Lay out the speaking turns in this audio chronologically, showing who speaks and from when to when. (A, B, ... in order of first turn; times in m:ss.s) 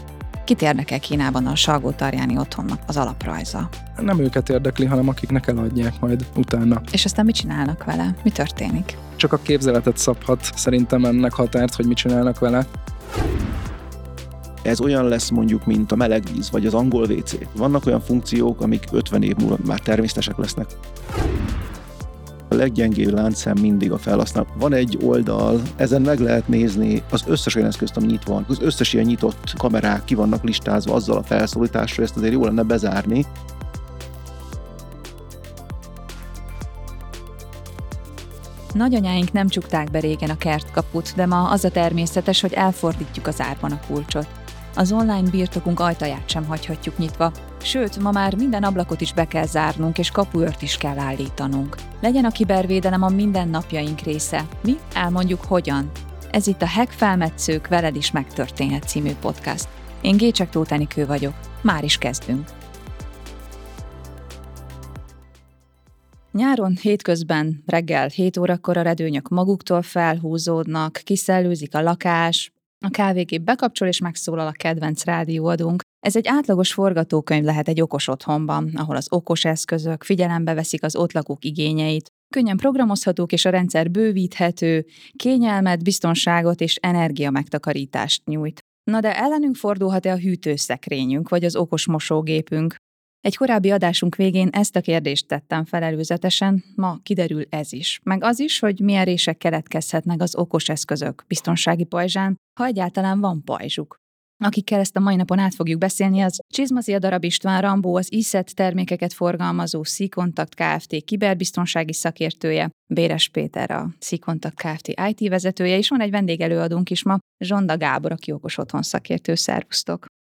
0:00.5-0:03.7 A
0:04.0-0:06.8 B
0:06.9-0:09.0 A
0:09.2-0:12.7 B
0:14.6-0:20.7 C
0:22.5-0:33.3 C
0:38.7-1:02.5 A
1:06.3-2:00.1 A